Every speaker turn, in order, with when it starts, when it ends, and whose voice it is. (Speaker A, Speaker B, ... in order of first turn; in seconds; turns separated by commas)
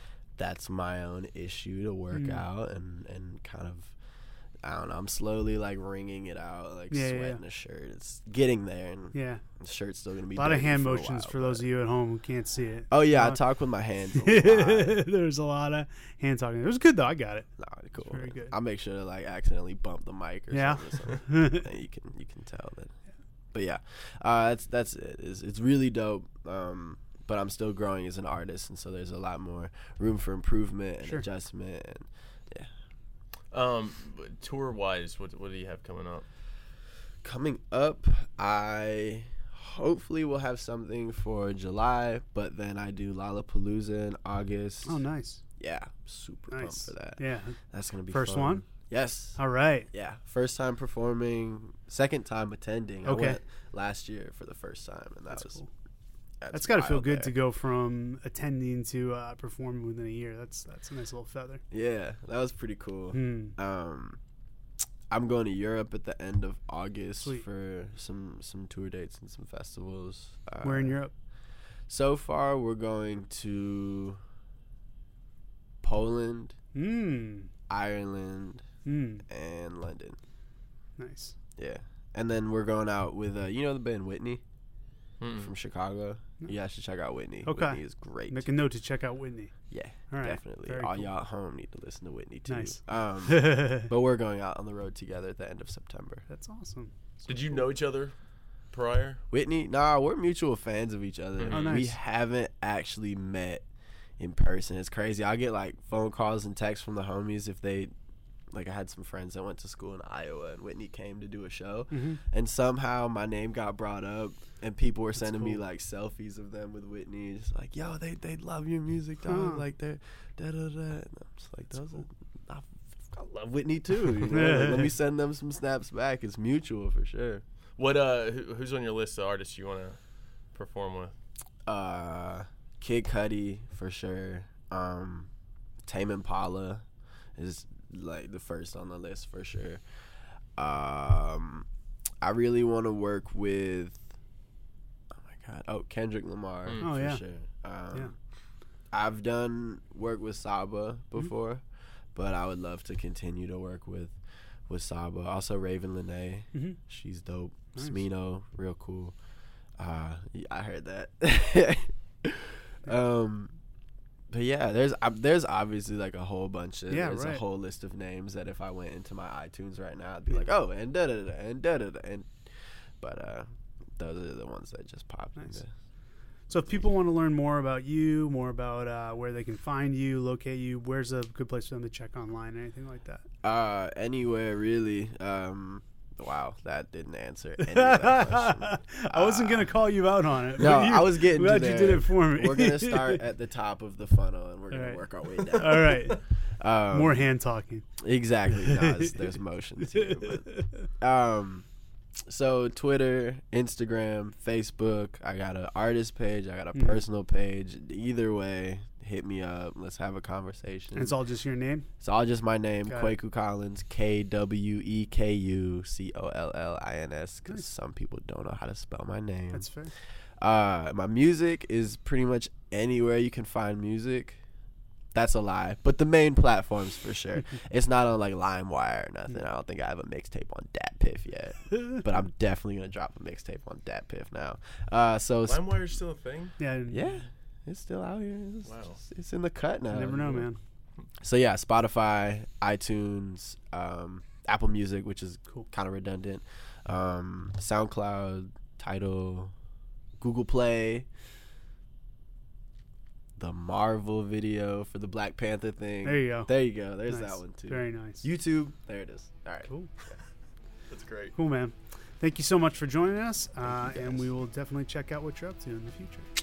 Speaker A: 0.4-3.9, Speaker B: 2.1-2.4, Speaker A: 4.6-11.7, Speaker B: 6.9-7.4, Speaker B: 9.1-9.4, Speaker B: 10.3-13.4, Speaker A: 12.9-15.0, Speaker B: 14.1-17.5, Speaker A: 17.6-22.9, Speaker B: 18.1-18.5, Speaker B: 20.5-21.6, Speaker A: 23.5-32.7, Speaker C: 33.5-36.2, Speaker A: 37.2-45.0, Speaker B: 44.9-45.4, Speaker A: 45.6-49.4, Speaker B: 46.5-47.6, Speaker B: 48.1-48.6, Speaker B: 49.4-49.9, Speaker A: 49.9-55.6, Speaker B: 53.0-53.4, Speaker B: 55.3-55.7, Speaker A: 56.4-57.4, Speaker B: 56.5-61.6, Speaker A: 61.7-64.2, Speaker B: 63.1-63.5, Speaker A: 65.1-71.0, Speaker B: 70.6-71.1, Speaker A: 71.9-74.2, Speaker A: 75.8-76.5, Speaker B: 76.7-77.5, Speaker A: 77.7-78.6, Speaker B: 78.8-79.2, Speaker A: 79.3-80.2, Speaker B: 81.0-81.3, Speaker A: 81.6-84.4, Speaker C: 85.2-85.5, Speaker A: 85.3-88.5, Speaker B: 87.5-89.5, Speaker A: 89.7-96.2, Speaker B: 90.1-91.1, Speaker B: 92.5-93.9, Speaker B: 96.3-97.6, Speaker C: 97.3-98.1, Speaker C: 98.7-99.2, Speaker A: 99.3-103.7, Speaker C: 101.4-101.8, Speaker B: 101.5-102.0, Speaker A: 104.2-107.9, Speaker A: 108.5-127.4, Speaker B: 111.9-112.2, Speaker B: 115.2-115.5, Speaker B: 119.2-119.6, Speaker B: 124.3-124.9, Speaker C: 127.8-130.0, Speaker C: 130.5-131.1, Speaker A: 131.7-135.3, Speaker A: 135.8-136.8, Speaker A: 137.4-139.8, Speaker A: 140.6-141.7, Speaker A: 142.2-144.1, Speaker A: 145.1-148.1, Speaker B: 146.8-147.2, Speaker A: 148.9-151.6, Speaker A: 152.1-154.2, Speaker A: 154.7-159.1, Speaker B: 157.8-158.0, Speaker A: 159.8-163.6, Speaker A: 164.3-172.3, Speaker B: 166.9-167.4, Speaker A: 173.0-175.7, Speaker B: 176.5-183.2, Speaker A: 183.4-189.7, Speaker B: 187.7-193.2, Speaker A: 190.5-197.2, Speaker B: 194.7-196.2, Speaker B: 196.9-197.8, Speaker A: 198.0-200.5, Speaker B: 198.5-199.2, Speaker B: 199.9-200.8, Speaker A: 201.0-201.7, Speaker A: 202.3-211.2, Speaker B: 206.7-207.0, Speaker B: 210.9-211.9, Speaker A: 212.0-219.7, Speaker B: 212.9-213.1, Speaker B: 219.5-219.9, Speaker A: 220.4-224.4, Speaker A: 225.1-235.8, Speaker C: 235.4-236.5, Speaker B: 236.6-237.2, Speaker A: 236.9-240.5, Speaker C: 238.6-239.0, Speaker B: 239.9-240.6, Speaker A: 241.2-249.5, Speaker A: 250.2-251.1, Speaker A: 253.4-259.7, Speaker B: 256.0-256.5, Speaker B: 257.0-258.2, Speaker C: 260.9-261.3, Speaker B: 261.3-266.3, Speaker A: 263.6-264.3